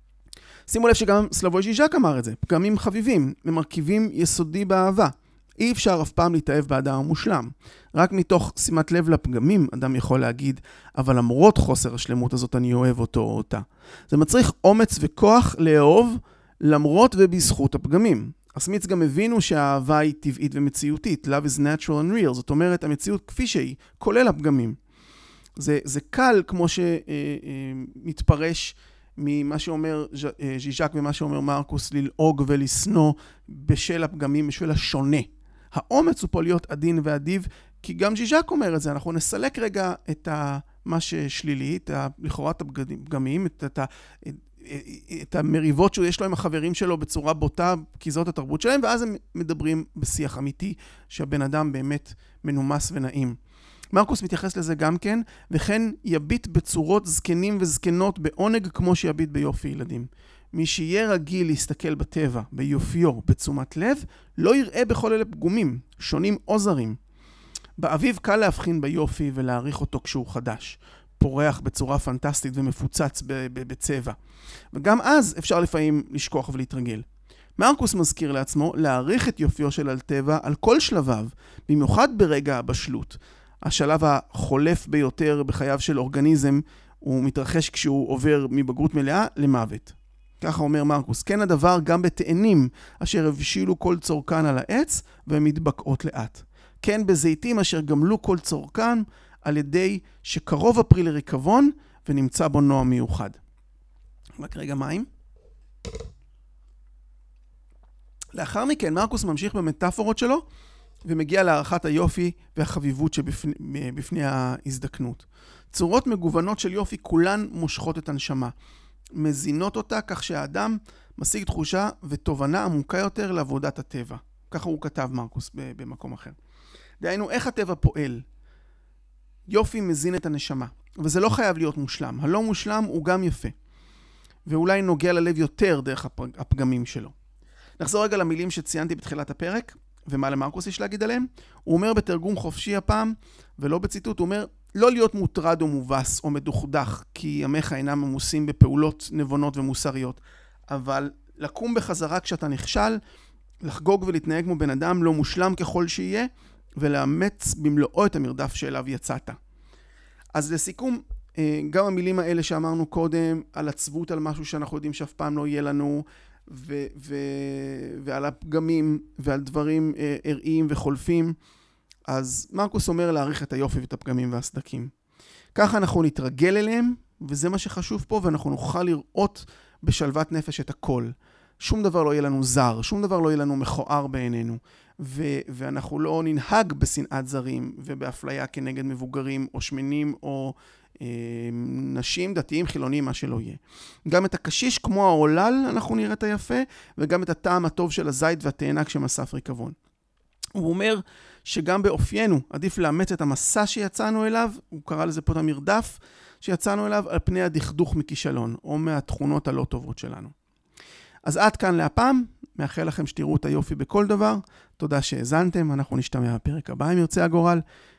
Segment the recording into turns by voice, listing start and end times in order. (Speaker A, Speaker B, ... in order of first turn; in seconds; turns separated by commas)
Speaker A: 0.7-24.8, Speaker A: 25.6-53.4, Speaker A: 53.9-67.0, Speaker A: 67.8-74.2, Speaker A: 74.7-77.1, Speaker A: 77.6-103.4, Speaker A: 104.4-105.1, Speaker A: 108.3-110.5, Speaker A: 111.1-118.5, Speaker A: 119.2-126.4, Speaker A: 127.0-128.2, Speaker A: 129.5-133.5, Speaker A: 134.5-137.1, Speaker A: 137.8-153.0, Speaker A: 153.6-159.4, Speaker A: 160.3-171.4, Speaker A: 172.1-174.9, Speaker A: 175.6-199.8, Speaker A: 200.6-210.3, Speaker A: 211.2-217.6